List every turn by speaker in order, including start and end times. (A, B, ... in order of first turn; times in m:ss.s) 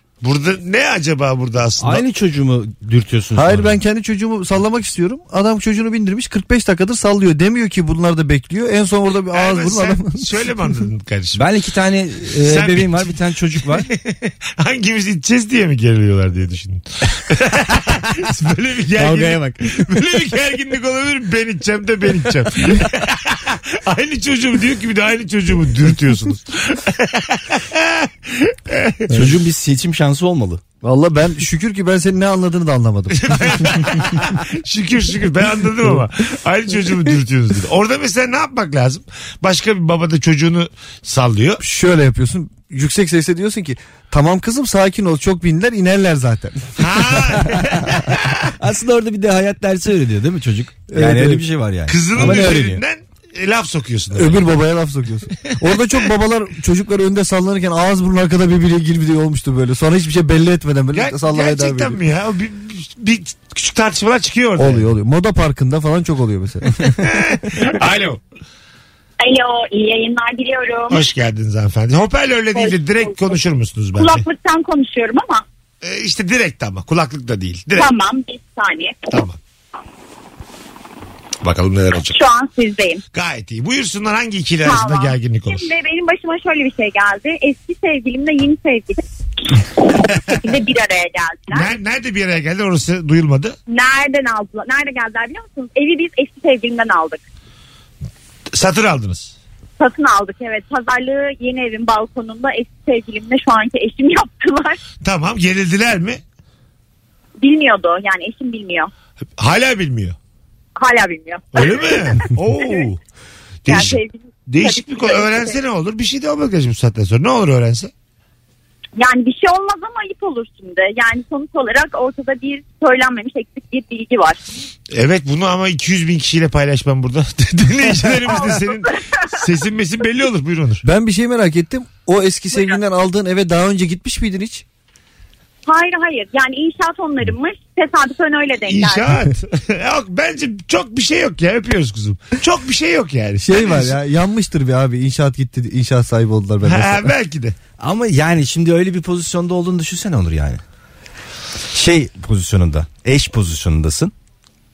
0:00.2-0:02.0 A
0:01.8-0:03.8 B
0:03.4-0:10.2 C
0:09.3-0:11.5 A
0:11.4-0:13.9 B
0:12.4-0:13.2 A
0:13.8-0:29.1 A
0:19.0-0:19.6 B
0:29.1-0:30.6 B
0:30.8-0:33.8 C
0:33.1-0:41.6 A
0:41.6-0:46.7 C
0:46.8-0:48.4 A
0:48.6-0:52.8 B
0:50.9-0:51.4 C
0:51.9-0:54.5 A
0:52.2-0:52.6 C
0:54.2-1:02.0 C
1:00.9-1:04.9 A
1:04.6-1:06.7 C
1:07.0-1:08.2 A
1:09.2-1:11.0 D
1:10.9-1:14.2 A
1:12.5-1:13.4 D
1:14.0-1:15.4 D
1:15.8-1:17.9 A
1:17.8-1:19.0 D
1:19.1-1:19.4 A
1:21.4-1:22.2 A
1:22.1-1:23.0 D
1:23.1-1:25.7 A
1:24.6-1:29.0 D
1:30.3-1:31.7 D
1:31.5-1:33.6 A
1:33.7-1:37.2 D
1:38.5-1:39.4 A
1:39.8-1:44.8 D
1:45.0-1:46.2 A
1:47.4-1:48.9 D
1:49.4-1:50.2 A
1:50.8-1:52.2 D
1:51.5-1:53.0 A
1:53.7-1:57.9 A
1:53.7-1:55.6 D
1:59.0-2:04.4 D
2:04.9-2:10.8 A
2:10.8-2:14.6 C
2:15.7-2:19.0 D
2:18.7-2:24.0 A
2:23.4-2:27.1 C
2:26.6-2:27.6 A
2:27.8-2:30.6 B
2:31.7-2:34.1 B